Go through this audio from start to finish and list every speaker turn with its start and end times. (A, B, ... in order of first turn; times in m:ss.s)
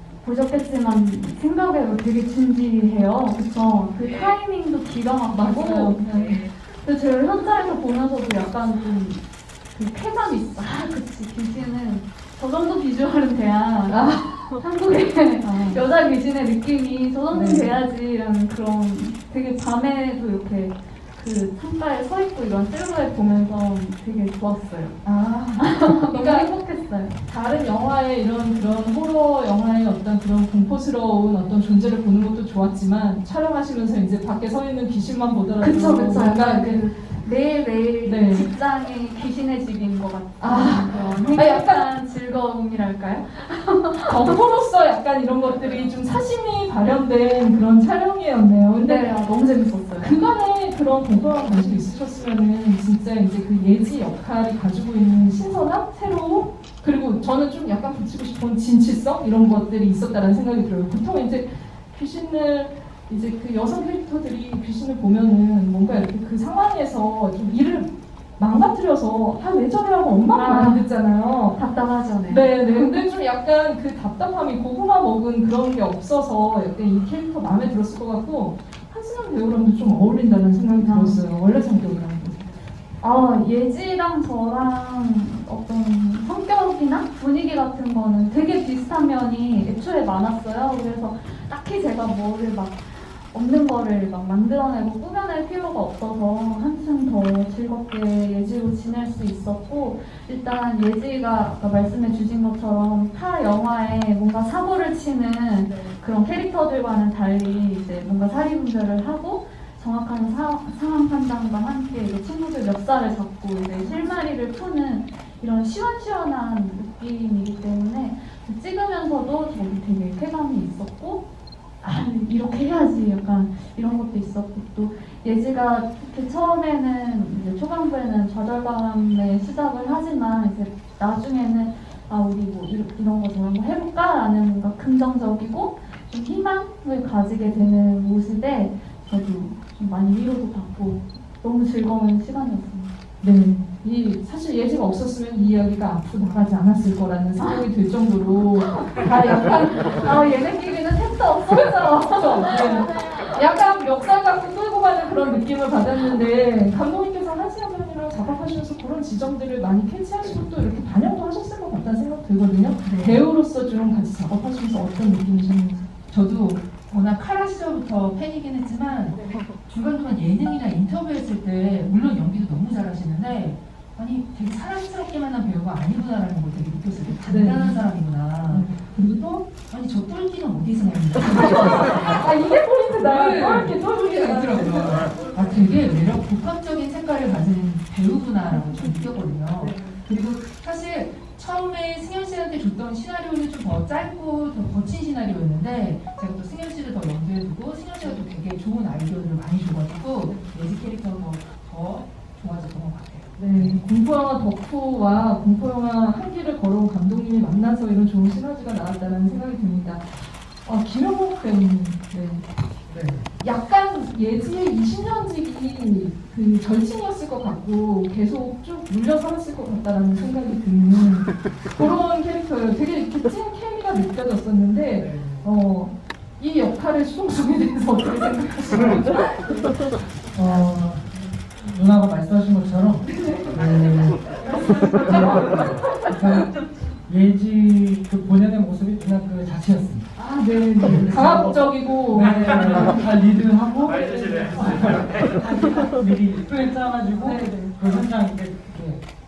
0:00.2-0:25.0 A
0:05.4-0:06.5 B
0:13.9-0:14.6 B
0:15.4-0:15.8 B
0:17.3-0:17.8 B
0:25.0-0:26.5 B
0:25.6-0:27.1 A
0:27.2-0:36.8 B
0:35.6-0:44.3 A
0:38.0-0:38.5 B
0:40.4-0:41.8 B
0:44.0-0:49.0 B
0:48.7-0:50.2 A
0:50.0-1:11.6 B
1:10.3-1:10.9 A
1:11.5-1:12.4 A
1:12.3-1:22.6 B
1:20.8-1:21.2 A
1:23.0-2:01.2 A
1:53.7-1:54.1 B
2:01.8-2:22.9 A
2:23.2-2:30.3 B
2:27.4-2:27.6 A
2:28.8-2:29.1 A
2:29.9-2:33.2 A
2:32.0-2:45.9 B
2:42.8-2:43.2 C
2:46.1-2:58.7 C
2:57.2-2:57.8 B
2:58.5-2:59.4 B
2:59.5-3:02.3 C
3:02.1-3:05.1 B
3:03.0-3:23.4 C
3:08.5-3:09.1 B
3:09.6-3:10.0 B
3:20.2-3:20.5 B
3:23.4-3:32.4 B
3:32.9-3:33.3 D
3:33.4-3:49.6 B
3:45.0-3:45.5 D
3:48.7-3:49.0 D
3:50.3-4:00.2 D
3:53.0-3:53.6 B
3:54.4-3:56.4 B
4:00.2-4:03.0 B
4:00.8-4:01.5 D
4:02.1-4:09.0 D
4:07.2-4:07.7 B